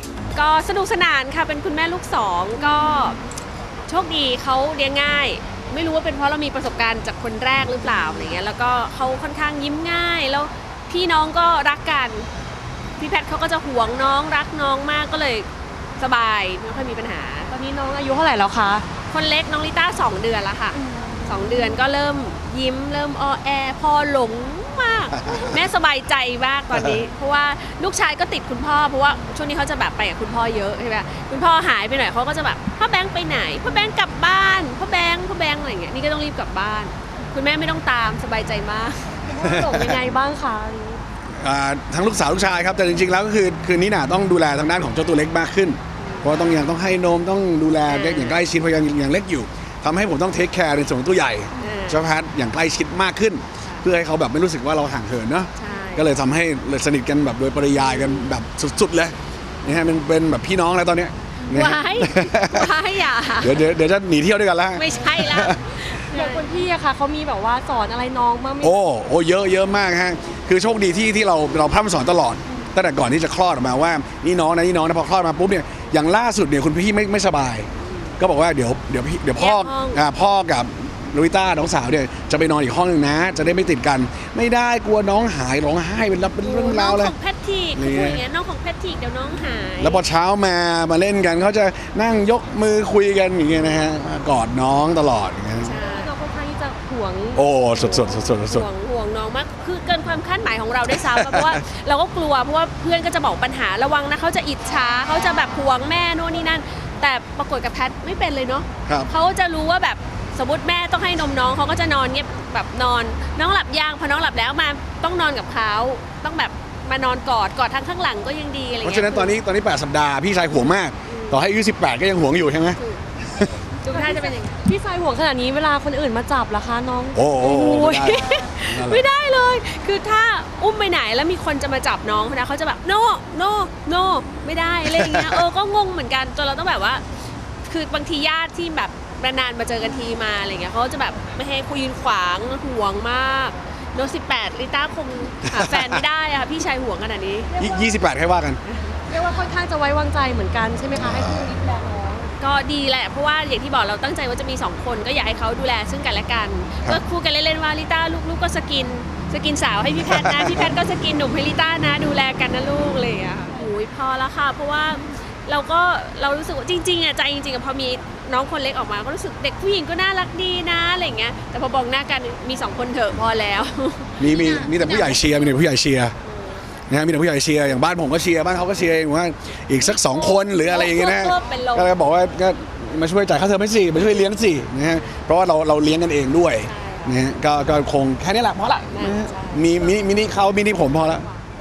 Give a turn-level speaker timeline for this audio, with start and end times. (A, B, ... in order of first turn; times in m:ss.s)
0:00.3-0:03.2 A
0:03.9-0:12.3 A
0:13.0-0:17.5 A
0:17.5-0:18.8 B
0:19.1-0:39.2 A
0:20.7-0:21.7 B
0:25.2-0:25.6 C
0:26.7-0:27.0 C
0:39.2-0:41.0 B
0:39.4-0:40.0 C
0:41.4-1:02.7 C
0:46.0-0:46.4 A
0:47.8-0:48.4 A
0:51.6-0:52.0 A
0:53.6-0:53.9 A
0:55.6-0:56.2 A
0:57.7-0:58.3 A
1:01.5-1:03.6 A
1:03.4-1:05.6 C
1:04.8-1:06.5 A
1:06.1-1:08.7 B
1:08.6-1:27.1 C
1:17.8-1:18.2 A
1:19.4-1:20.0 A
1:26.4-1:30.0 A
1:27.8-1:28.2 C
1:29.8-1:35.7 C
1:35.6-1:36.1 A
1:35.6-1:37.4 B
1:37.3-1:38.7 C
1:37.8-1:59.3 A
1:40.9-1:41.6 C
1:58.8-2:03.5 C
2:01.0-2:01.4 A
2:02.8-2:03.0 A
2:03.8-2:04.6 A
2:03.9-2:08.4 B
2:07.1-2:09.0 C
2:08.0-2:17.0 A
2:14.9-2:15.4 C
2:17.6-2:27.5 A
2:25.5-2:26.0 C
2:27.6-2:28.6 C
2:28.6-2:29.0 A
2:29.1-2:32.3 B
2:31.0-2:31.5 C
2:32.4-2:55.1 A
2:40.1-2:40.7 C
2:54.2-2:56.1 C
2:56.2-2:56.7 A
2:56.9-3:11.2 C
3:00.2-3:01.9 A
3:06.6-3:07.2 A
3:08.9-3:09.7 A